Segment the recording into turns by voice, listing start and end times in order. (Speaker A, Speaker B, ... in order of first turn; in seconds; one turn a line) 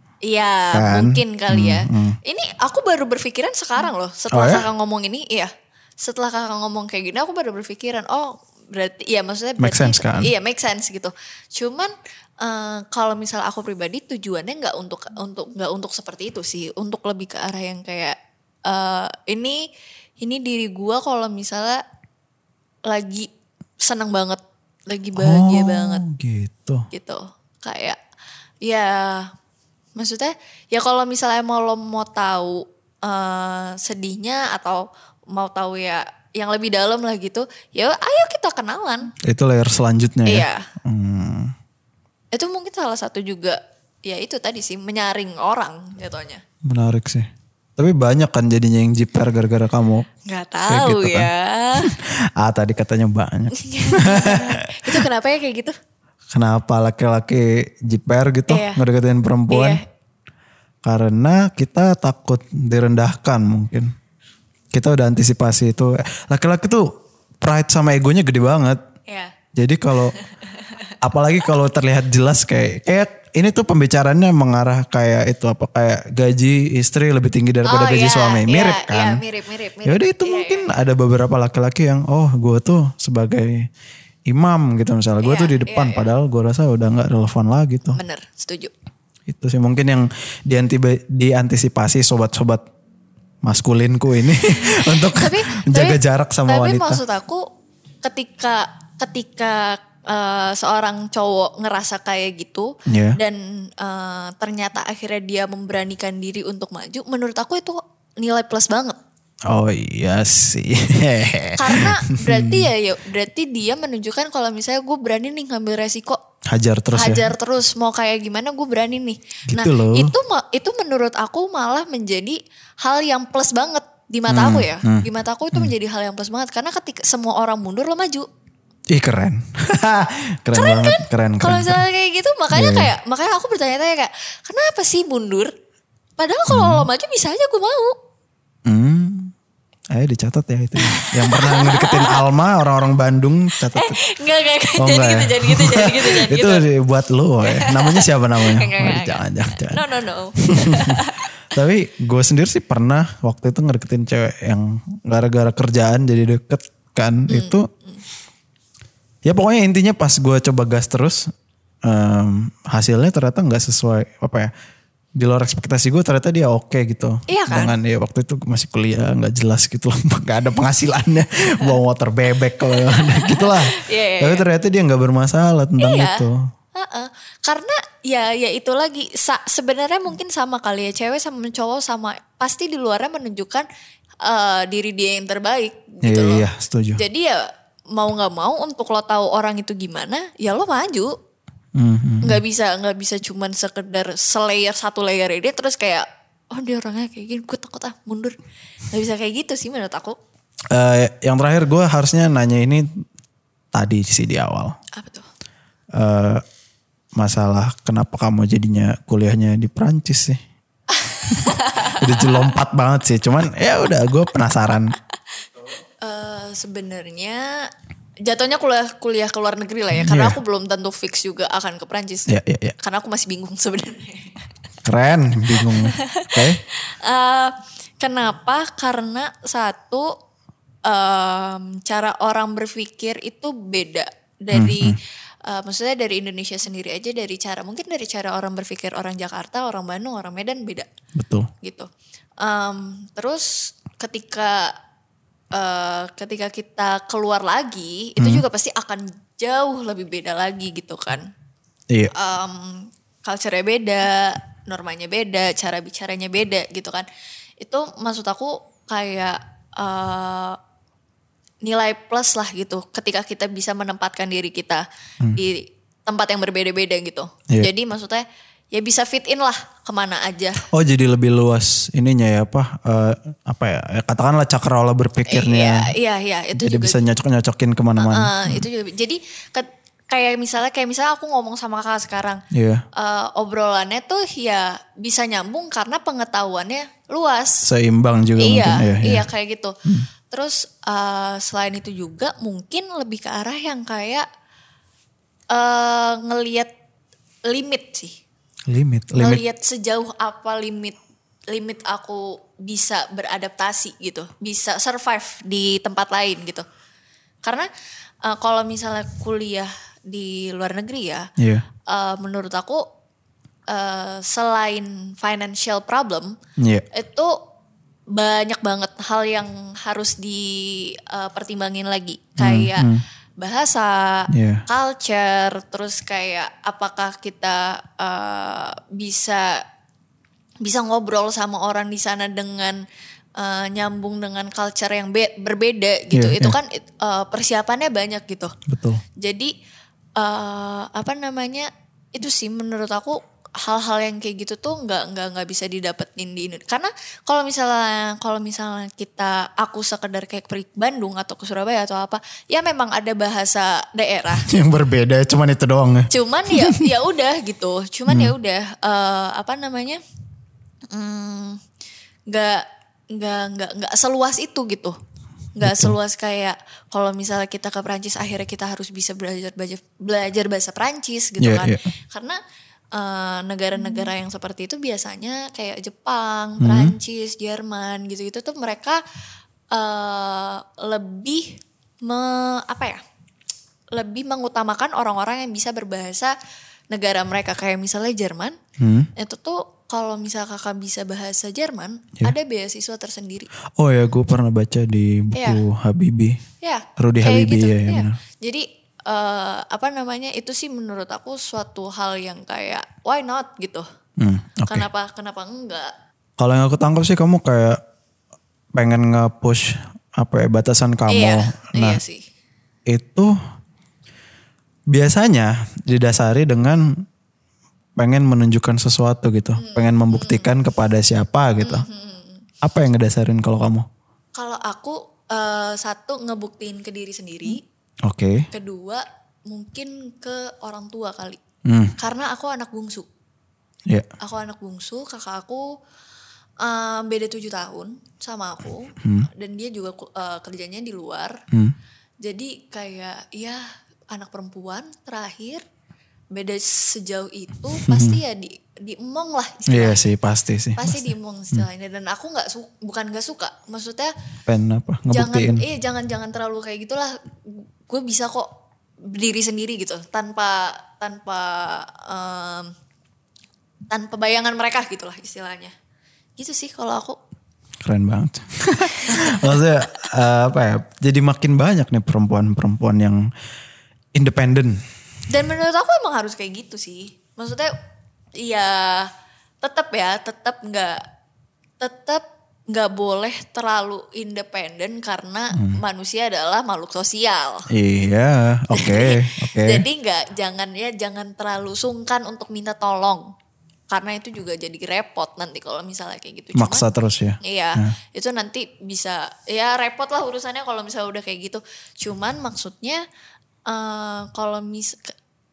Speaker A: 0.2-19.7
Speaker B: 0.7-2.2
Speaker B: 4.3-4.7
Speaker B: 9.6-10.3
Speaker A: 20.2-21.8
Speaker A: 22.9-23.3
Speaker A: 23.8-26.0
Speaker B: 25.1-26.9
Speaker A: 26.9-28.0
Speaker A: 28.6-29.3
Speaker A: 29.9-39.1
Speaker B: 39.2-41.5
Speaker A: 40.2-40.6
Speaker A: 42.3-46.4
Speaker B: 46.6-50.1
Speaker A: 50.2-51.9
Speaker B: 50.7-55.0
Speaker A: 53.5-55.8
Speaker B: 56.3-59.8
Speaker A: 58.5-58.8
Speaker A: 59.5-59.8
Speaker B: 60.8-63.9
Speaker B: 64.7-68.8
Speaker A: 69.1-69.3
Speaker B: 69.5-70.2
Speaker A: 70.2-70.9
Speaker B: 71.0-79.2
Speaker A: 77.6-80.7
Speaker B: 79.8-83.7
Speaker B: 84.3-88.0
Speaker A: 85.2-86.1
Speaker A: 87.9-88.7
Speaker B: 89.3-92.6
Speaker B: 93.4-97.0
Speaker A: 94.7-97.5
Speaker A: 98.0-109.0
Speaker B: 102.9-103.2
Speaker B: 109.5-112.7
Speaker A: 111.6-116.2
Speaker B: 116.5-117.3
Speaker A: 116.9-128.3
Speaker B: 119.5-120.1
Speaker B: 124.3-125.7
Speaker B: 128.9-131.8
Speaker A: 130.5-135.5
Speaker B: 132.5-132.9
Speaker A: 136.2-137.9
Speaker B: 136.5-136.9
Speaker B: 138.7-139.3
Speaker B: 139.9-144.0
Speaker A: 140.8-142.2
Speaker A: 143.6-146.7
Speaker B: 144.8-149.8
Speaker A: 147.4-151.2
Speaker B: 150.4-157.7
Speaker A: 157.3-158.0
Speaker B: 159.2-161.3
Speaker B: 161.8-164.5
Speaker B: 165.2-176.5
Speaker A: 167.3-167.7
Speaker A: 172.6-174.4
Speaker A: 175.8-176.2
Speaker A: 176.7-183.7
Speaker A: 184.2-186.4
Speaker B: 186.0-187.0
Speaker A: 187.0-191.1
Speaker B: 191.7-192.4
Speaker A: 192.2-198.3
Speaker A: 198.9-200.2
Speaker B: 200.7-202.9
Speaker B: 203.7-204.8
Speaker A: 204.9-205.3
Speaker B: 205.9-206.4
Speaker B: 207.2-210.4
Speaker A: 210.9-212.5
Speaker B: 211.3-214.9
Speaker A: 216.0-217.7
Speaker A: 218.2-224.4
Speaker B: 219.9-220.4
Speaker B: 222.3-222.8
Speaker B: 224.8-226.6
Speaker A: 225.5-230.2
Speaker A: 230.8-240.9
Speaker B: 234.5-235.0
Speaker B: 241.2-241.5
Speaker A: 241.6-244.7
Speaker A: 245.5-251.3
Speaker B: 248.2-248.4
Speaker A: 252.1-257.1
Speaker A: 257.6-260.6
Speaker A: 261.6-264.8
Speaker A: 265.4-270.6
Speaker B: 270.7-275.9
Speaker A: 275.3-277.0
Speaker B: 276.5-278.6
Speaker A: 278.0-282.4
Speaker B: 282.5-282.8
Speaker A: 282.9-287.6
Speaker B: 287.6-289.2
Speaker A: 288.4-294.3
Speaker A: 295.5-296.7
Speaker A: 297.4-298.2
Speaker B: 298.7-299.4
Speaker A: 299.2-301.0
Speaker A: 301.5-306.6
Speaker A: 307.4-307.7
Speaker A: 308.2-311.3
Speaker B: 311.4-311.6
Speaker A: 311.8-312.9
Speaker A: 313.7-316.4
Speaker B: 316.6-316.9
Speaker A: 316.9-317.4
Speaker A: 318.1-329.6
Speaker B: 322.4-323.0
Speaker B: 324.3-324.6
Speaker A: 330.6-332.8
Speaker A: 333.4-338.5
Speaker B: 336.1-336.6
Speaker B: 338.7-339.0
Speaker A: 339.1-339.5
Speaker A: 340.1-354.5
Speaker B: 354.3-356.9
Speaker A: 356.1-360.0
Speaker B: 358.1-358.3
Speaker A: 360.9-361.6
Speaker A: 362.3-365.0
Speaker A: 365.6-372.4
Speaker B: 365.6-365.9
Speaker B: 371.4-371.9
Speaker A: 372.9-379.0
Speaker B: 376.6-376.9
Speaker A: 379.7-383.0
Speaker A: 383.9-386.3
Speaker A: 386.9-388.6
Speaker B: 388.8-389.1
Speaker A: 389.1-393.5
Speaker B: 393.8-396.4
Speaker A: 395.3-395.6
Speaker A: 396.6-403.9
Speaker B: 397.0-398.2
Speaker B: 404.2-404.9
Speaker A: 404.7-405.9
Speaker B: 406.4-407.8
Speaker B: 408.7-412.0
Speaker A: 411.1-412.2
Speaker B: 412.9-413.3
Speaker B: 414.9-417.0
Speaker B: 418.0-421.8
Speaker A: 419.6-420.5
Speaker A: 421.6-422.4
Speaker B: 422.6-423.9
Speaker A: 424.3-427.6
Speaker B: 428.0-428.5
Speaker A: 428.5-431.4
Speaker B: 431.6-432.0
Speaker A: 432.0-433.1
Speaker A: 434.2-435.8
Speaker A: 436.6-441.4
Speaker B: 439.0-439.3
Speaker A: 442.2-445.6
Speaker A: 446.3-450.1
Speaker B: 447.8-448.2
Speaker B: 449.7-451.6
Speaker A: 450.8-454.1
Speaker B: 454.5-455.6
Speaker A: 455.1-458.5
Speaker A: 459.0-462.7
Speaker A: 463.9-465.7
Speaker A: 466.4-467.2
Speaker B: 467.8-473.3
Speaker A: 469.0-469.6
Speaker B: 474.1-474.8
Speaker A: 475.3-477.7
Speaker A: 478.4-481.0
Speaker A: 481.8-487.7
Speaker B: 485.5-485.8
Speaker B: 487.7-489.8
Speaker A: 488.7-493.3
Speaker A: 493.9-496.9
Speaker B: 496.5-497.9
Speaker A: 497.4-503.0
Speaker A: 503.7-505.1